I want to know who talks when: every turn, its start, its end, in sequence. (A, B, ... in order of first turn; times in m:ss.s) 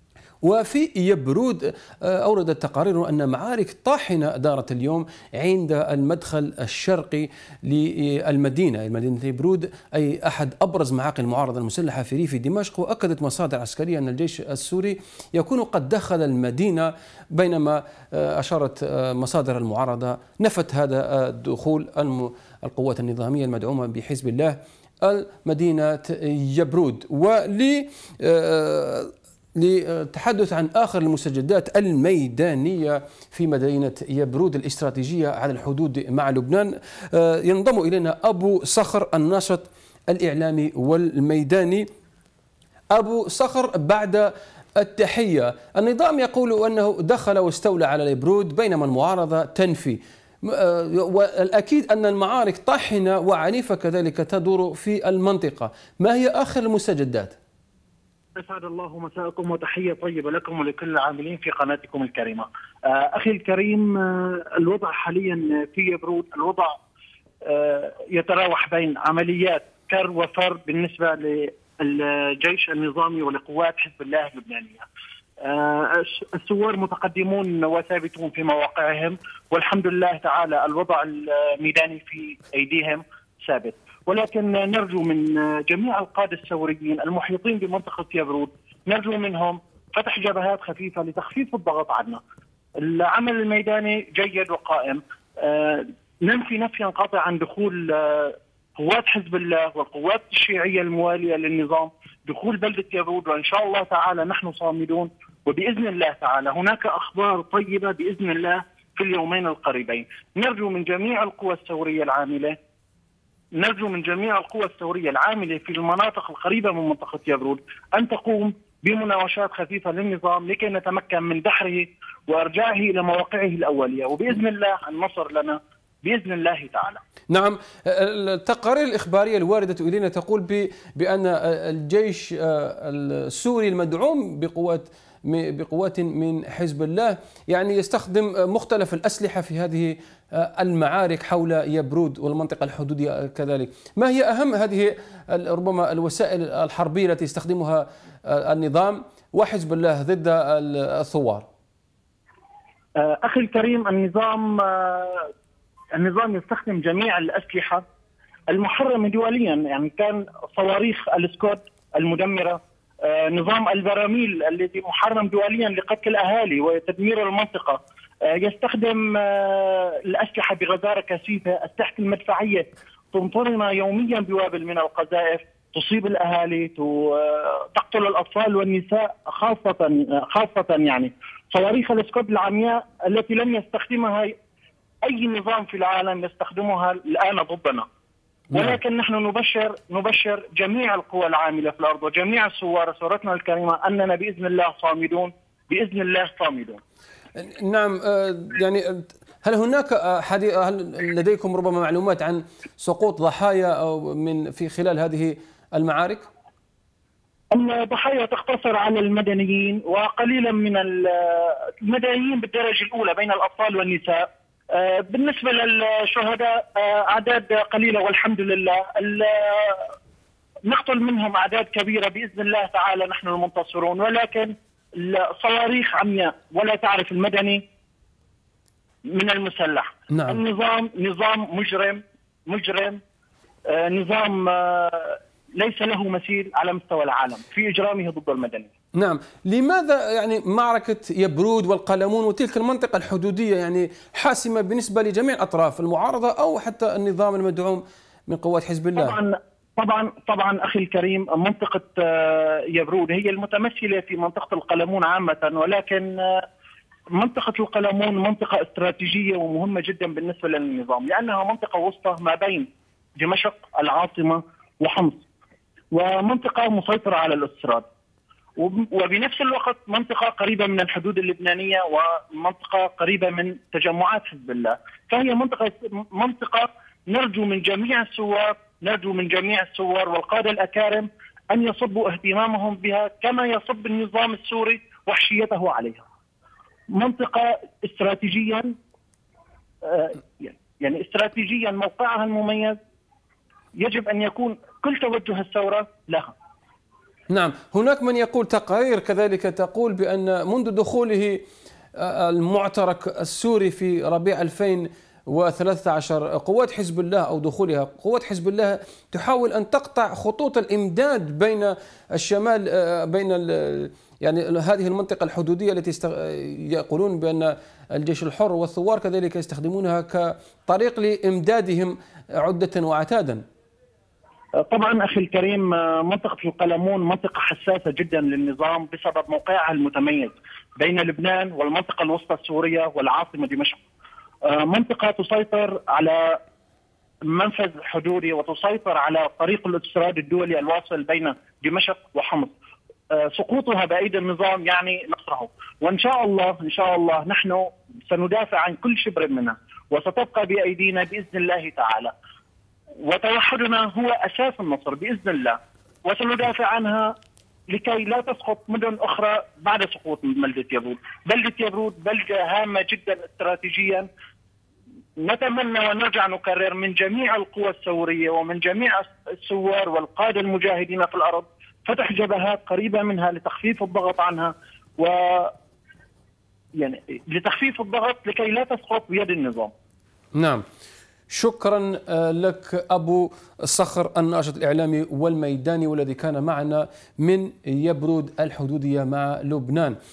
0:00.4-0:41.9 A
0:42.9-0:57.4 A
0:58.4-1:06.8 B
1:07.4-1:14.8 B
1:15.4-1:32.2 B
1:32.8-1:52.6 B
1:53.6-2:07.0 B
2:07.3-2:31.5 A
2:33.0-2:35.3 B
2:35.9-2:37.8 B
2:38.5-3:04.4 B
3:05.0-3:07.9 B
3:08.5-3:08.8 A
3:08.5-3:16.8 B
3:17.4-3:26.3 A
3:27.5-3:39.9 B
3:40.7-3:47.6 B
3:49.1-3:53.0 B
3:50.1-3:50.4 A
3:53.7-3:58.7 B
3:59.0-4:09.2 A
4:09.0-4:16.5 B
4:17.2-4:22.7 B
4:23.2-4:25.2 B
4:25.9-4:27.9 B
4:28.6-4:46.0 B
4:46.9-4:48.8 B
4:49.8-4:52.8 B
4:53.8-4:56.3 B
4:57.3-5:01.4 A
5:02.0-5:23.4 A
5:24.6-5:33.8 B
5:34.5-5:36.4 B
5:37.3-5:42.5 B
5:43.1-5:52.1 B
5:53.0-5:57.2 B
5:57.7-6:04.1 B
6:05.2-6:15.5 B
6:16.8-6:19.7 B
6:20.3-6:20.6 A
6:21.3-6:30.0 A